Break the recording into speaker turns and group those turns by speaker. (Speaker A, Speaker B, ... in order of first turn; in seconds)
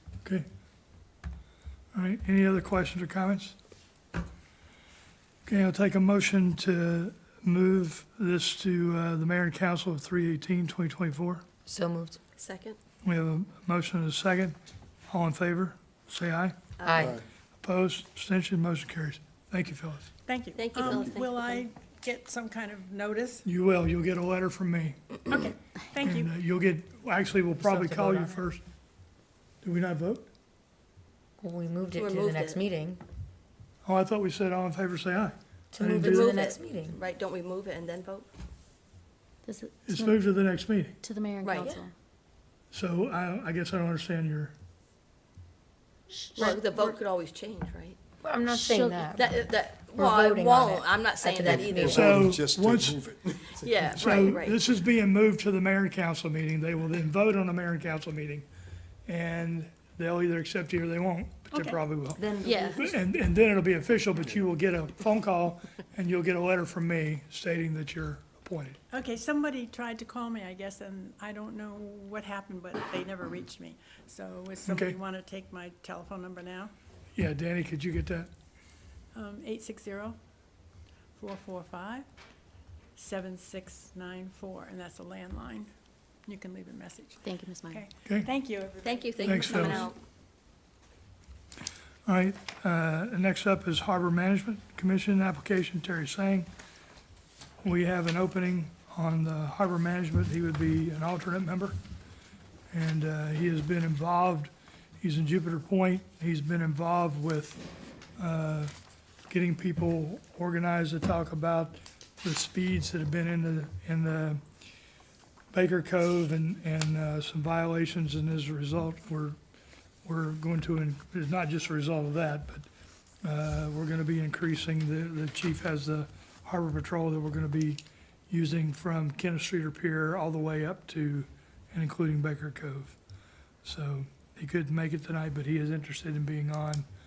Speaker A: 1.9-3.6, 5.5-11.4, 13.0-14.6, 15.1-16.6, 17.6-20.1, 23.4-25.2, 26.0-28.6, 29.6-30.3, 33.9-36.4, 39.9-41.0, 42.7-44.5, 51.8-53.2, 53.8-58.5, 59.1-68.8, 74.7-75.0, 77.2-78.3, 89.2-89.9, 92.1-96.5, 97.6-101.8, 102.7-107.6, 108.2-108.7, 109.3-114.4, 115.5-119.4, 120.0-122.7, 123.2-133.0, 133.6-136.9
Speaker B: 11.7-12.2, 16.8-17.2, 27.6-28.4, 31.4-33.0, 35.7-37.0, 46.4-47.0, 48.2-52.2, 62.3-62.6
Speaker C: 12.4-12.8, 16.8-17.1, 20.5-21.6, 31.9-32.6, 36.0-38.3, 41.4-41.7, 46.4-48.0, 49.1-52.2, 53.6-54.6, 88.8-90.0
Speaker D: 20.3-23.4, 25.3-26.3, 61.5-61.8, 68.9-76.7, 79.1-80.2, 81.2-82.1, 83.0-85.7, 86.2-89.9
Speaker E: 39.4-40.4, 41.0-41.9, 48.6-49.0, 62.4-62.9, 87.2-87.8
Speaker F: 51.5-54.1